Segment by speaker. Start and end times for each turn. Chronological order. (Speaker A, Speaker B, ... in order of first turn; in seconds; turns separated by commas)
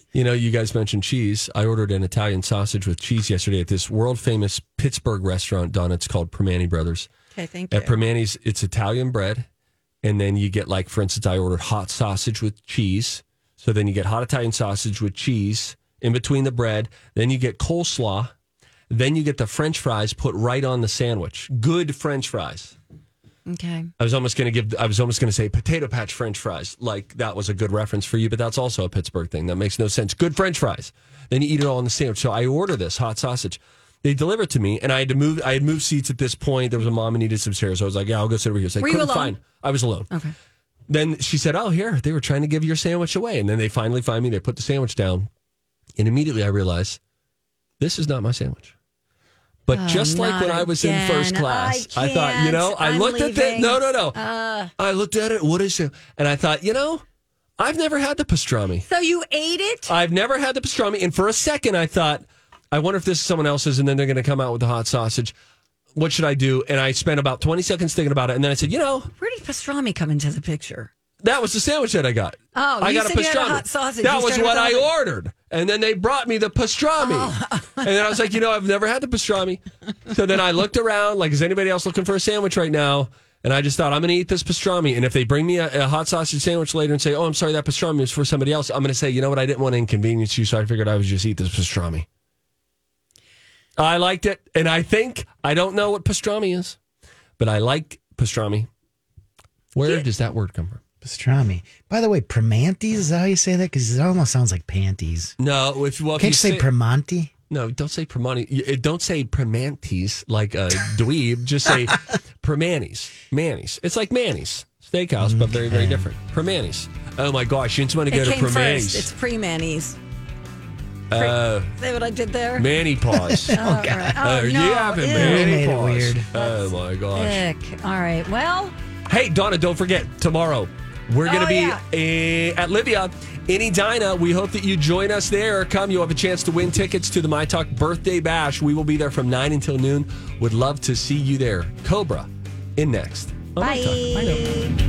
Speaker A: 0.1-7.1, Speaker B: 7.3-8.0, Speaker A: 7.7-9.5, Speaker A: 10.0-18.3, Speaker A: 18.9-22.8, Speaker B: 23.5-23.9, Speaker A: 24.0-40.1, Speaker B: 38.8-39.4, Speaker A: 40.9-45.3, Speaker A: 46.0-47.0, Speaker A: 47.8-48.8, Speaker A: 49.7-54.2, Speaker B: 49.7-54.7, Speaker A: 54.8-57.0, Speaker A: 57.6-58.9, Speaker B: 58.9-59.9, Speaker A: 59.9-65.3, Speaker A: 66.0-69.1, Speaker B: 69.2-70.9, Speaker A: 71.2-92.1, Speaker B: 72.5-74.9, Speaker B: 77.0-77.9, Speaker A: 93.8-96.8, Speaker A: 97.4-98.7, Speaker A: 99.8-100.8, Speaker C: 101.0-105.4, Speaker A: 105.4-106.7, Speaker C: 106.2-107.3, Speaker A: 107.5-119.1, Speaker C: 115.2-116.1, Speaker B: 118.1-120.0, Speaker A: 121.1-121.7, Speaker B: 121.1-122.7, Speaker A: 122.6-123.5, Speaker C: 123.2-124.2, Speaker B: 123.5-125.5, Speaker A: 124.2-127.4, Speaker C: 125.1-126.3, Speaker B: 126.3-128.8, Speaker A: 129.1-144.7, Speaker B: 131.2-131.8, Speaker B: 143.6-144.7